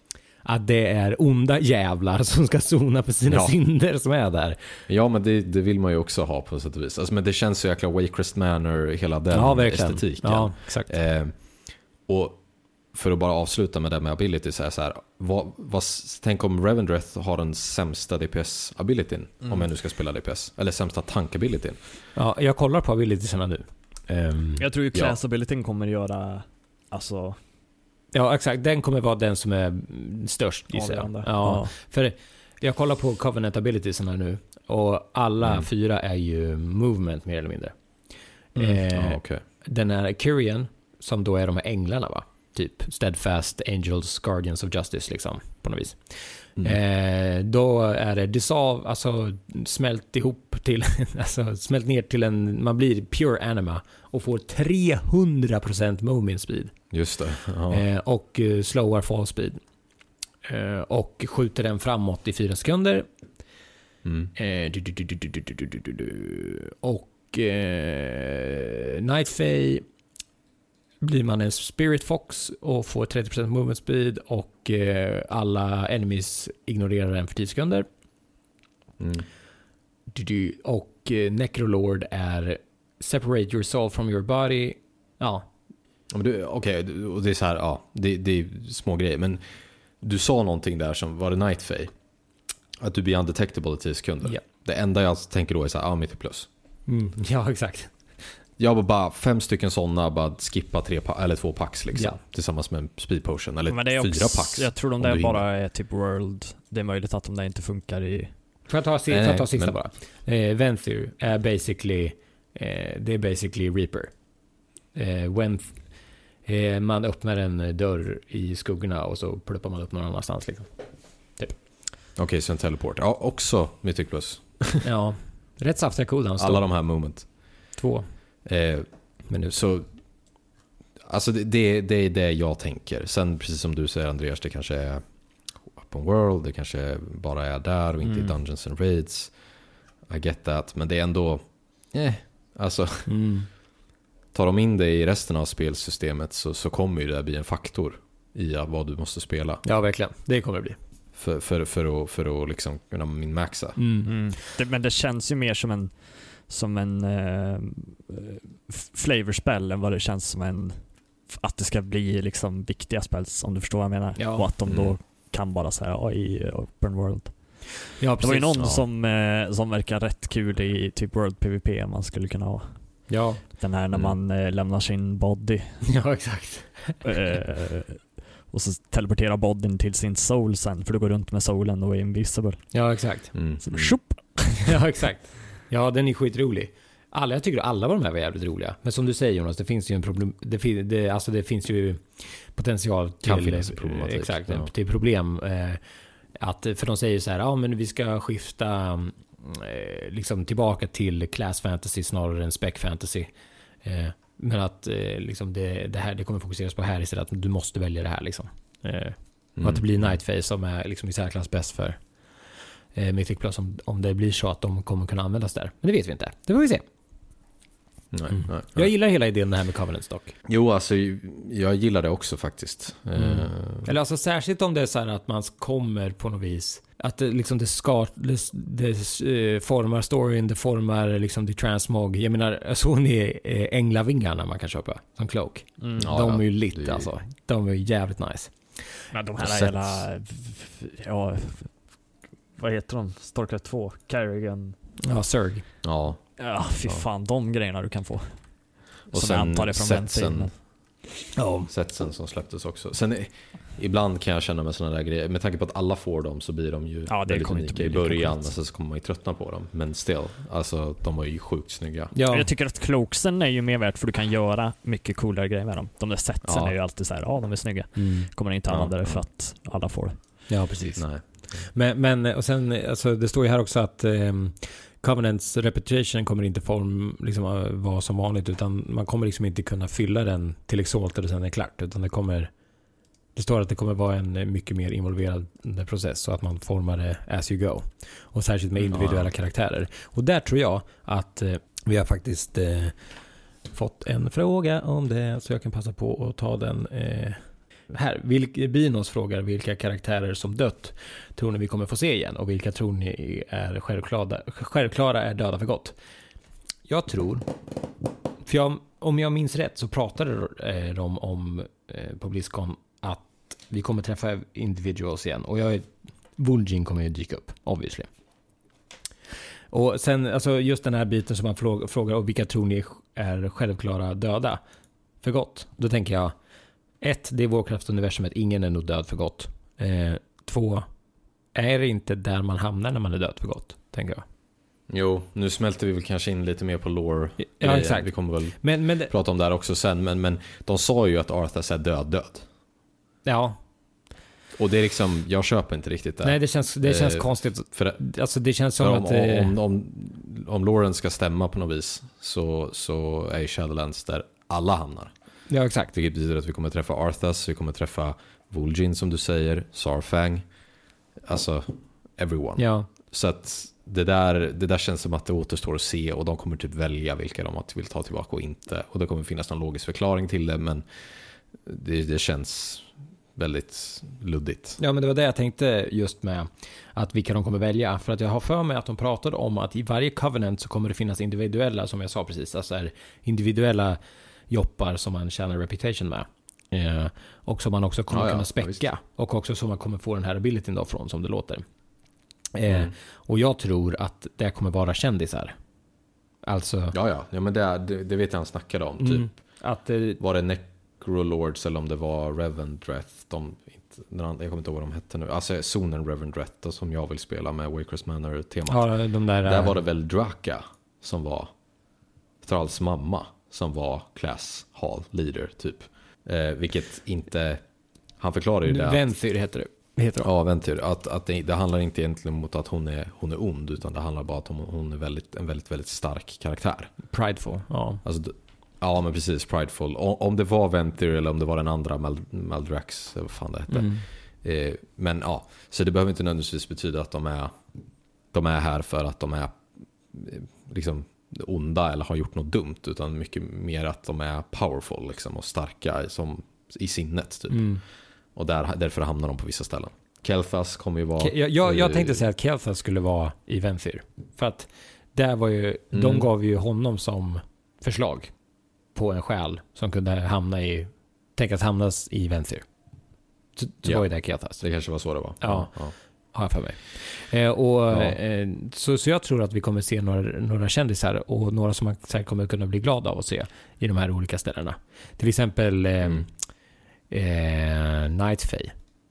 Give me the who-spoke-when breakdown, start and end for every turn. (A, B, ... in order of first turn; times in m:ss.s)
0:00.4-0:04.8 A
0:03.3-0:03.5 B
0:04.9-0:21.8 B
0:09.3-0:10.9 A
0:22.1-0:24.6 A
0:24.6-0:27.4 C
0:28.1-0:56.8 A
0:30.7-0:31.8 C
0:35.4-0:35.7 B
0:38.6-0:39.4 B
0:56.9-0:57.8 B
0:57.7-0:59.6 A
1:00.4-1:03.1 A
1:04.0-1:04.3 B
1:04.4-1:09.8 A
1:11.0-1:17.9 A
1:19.0-1:19.3 B
1:20.1-1:25.5 A
1:26.1-1:31.9 B
1:32.8-1:36.5 B
1:36.9-1:38.1 A
1:38.6-1:45.5 B
1:41.9-1:42.2 A
1:43.7-1:48.4 C
1:48.7-1:54.2 A
1:49.1-1:49.8 B
1:54.9-2:00.7 A
2:01.3-2:01.5 A
2:02.2-2:04.8 B
2:04.8-2:06.7 A
2:06.4-2:07.3 B
2:07.8-2:08.1 A
2:08.4-2:09.9 B
2:09.3-2:09.6 A
2:11.0-2:15.1 B
2:15.7-2:19.4 B
2:18.0-2:18.3 C
2:20.1-2:23.1 B
2:23.1-2:23.5 A
2:24.3-2:29.6 B
2:29.6-2:30.8 A
2:31.1-2:33.8 B
2:33.8-2:34.3 A
2:34.0-2:55.9 C
2:44.2-2:44.5 A
2:44.6-2:45.0 B
2:48.0-2:48.6 A
2:48.6-2:48.8 B
2:53.1-2:53.4 A
2:53.9-2:54.2 B
2:55.9-2:57.0 A
2:57.0-3:02.8 C
3:02.7-3:03.3 A
3:03.3-3:04.0 B
3:03.6-3:04.6 C
3:04.6-3:15.8 A
3:13.2-3:14.7 B
3:16.4-3:23.3 A
3:23.8-3:36.8 A
3:29.6-3:30.2 B
3:38.1-3:38.9 B
3:38.3-3:40.4 A
3:40.5-3:43.9 B
3:43.2-3:59.1 A
3:55.8-3:56.1 C
3:56.0-3:57.1 B
3:59.2-4:04.8 C
3:59.4-4:00.1 B
4:05.0-4:05.6 A
4:05.8-4:07.1 B
4:06.4-4:10.5 C
4:09.1-4:10.5 B
4:11.4-4:11.7 A
4:11.7-4:22.1 B
4:17.1-4:18.5 C
4:22.1-4:22.5 A
4:22.3-4:30.2 C
4:26.4-4:26.7 B
4:28.0-4:28.3 A
4:28.7-4:29.2 B
4:30.5-4:42.5 A
4:31.0-4:31.6 B
4:43.4-4:53.0 A
4:48.9-4:49.3 B
4:53.7-5:06.0 A
5:06.9-5:07.5 A
5:08.4-5:18.1 A
5:19.7-5:24.6 A
5:25.2-5:26.4 A
5:27.0-5:30.9 A
5:31.5-5:34.2 A
5:34.9-5:42.5 B
5:37.4-5:39.1 A
5:43.2-5:43.6 A
5:44.5-5:48.1 B
5:46.2-5:49.6 A
5:48.8-5:55.1 B
5:55.5-5:55.9 A
5:55.9-6:00.5 B
6:01.2-6:14.8 B
6:02.6-6:02.9 A
6:14.8-6:31.6 A
6:28.1-6:28.8 B
6:32.5-6:35.6 A
6:32.7-6:32.9 B
6:36.4-6:37.0 A
6:36.9-6:39.4 B
6:39.0-6:40.2 A
6:40.2-6:51.5 B
6:48.7-6:49.8 A
6:52.4-6:57.6 B
6:58.2-6:59.0 B
6:58.6-7:00.3 A
7:00.2-7:07.1 B
7:07.1-7:08.0 A
7:08.0-7:17.6 B
7:13.7-7:14.0 A
7:18.3-7:27.8 B
7:27.5-7:27.8 A
7:28.3-7:32.2 B
7:31.2-7:38.4 A
7:35.9-7:36.3 B
7:38.9-7:42.7 A
7:43.6-7:56.3 A
7:43.8-7:46.0 B
7:47.9-7:48.2 B
7:57.1-7:58.8 A